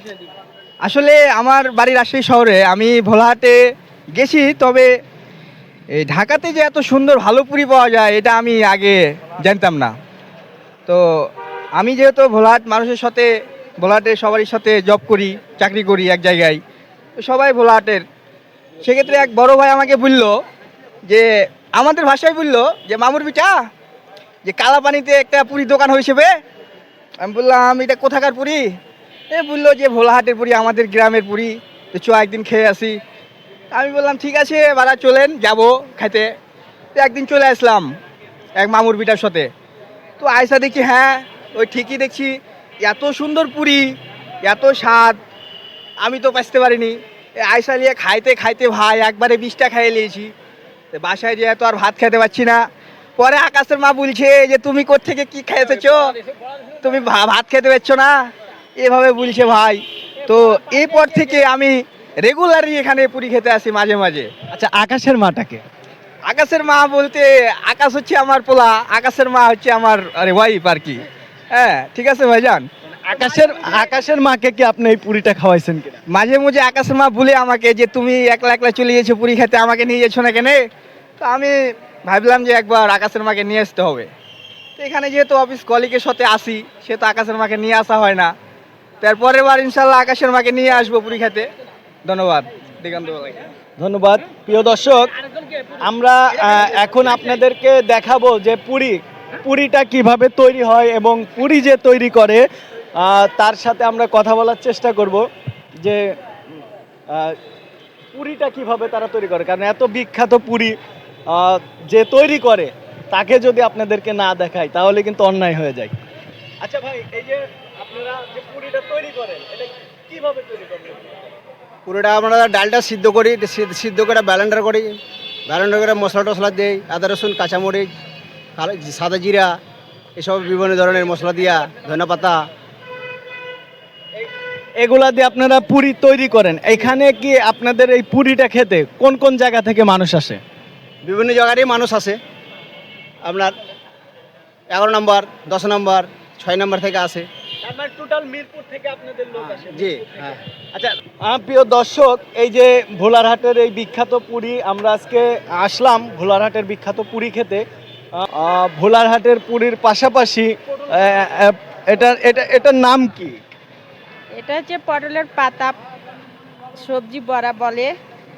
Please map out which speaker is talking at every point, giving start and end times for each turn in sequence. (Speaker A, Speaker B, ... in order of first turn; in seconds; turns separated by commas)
Speaker A: 0.8-3.6, Speaker A: 4.2-4.9, Speaker A: 6.0-9.9, Speaker A: 11.8-13.3, Speaker A: 13.8-16.6, Speaker A: 17.2-18.0, Speaker A: 18.8-20.3, Speaker A: 21.1-23.6, Speaker A: 24.4-26.3, Speaker A: 27.2-28.6, Speaker A: 29.3-33.0, Speaker A: 33.7-36.3, Speaker A: 36.9-37.9, Speaker A: 38.6-39.5, Speaker A: 40.2-43.9, Speaker A: 44.4-45.2, Speaker A: 46.0-50.3, Speaker A: 50.9-52.6, Speaker A: 53.2-56.2, Speaker A: 56.8-58.1, Speaker A: 58.8-64.3, Speaker B: 64.5-65.6, Speaker A: 66.3-72.7, Speaker B: 73.1-76.0, Speaker A: 76.1-80.6, Speaker A: 81.2-84.1, Speaker A: 84.8-88.3, Speaker A: 89.0-91.5, Speaker A: 92.0-93.4, Speaker B: 93.8-95.1, Speaker B: 95.8-102.4, Speaker B: 103.0-105.2, Speaker B: 105.8-106.1, Speaker B: 107.1-107.4, Speaker B: 108.1-110.8, Speaker B: 111.3-115.9, Speaker B: 116.6-121.1, Speaker C: 121.8-125.0, Speaker C: 125.5-127.9, Speaker C: 128.6-129.6, Speaker C: 130.2-132.4, Speaker B: 134.8-140.4, Speaker C: 141.0-142.2, Speaker C: 143.2-143.5, Speaker C: 144.7-147.3, Speaker B: 147.6-157.6, Speaker C: 149.7-150.3, Speaker B: 158.2-163.4, Speaker D: 164.3-165.8, Speaker D: 166.8-167.9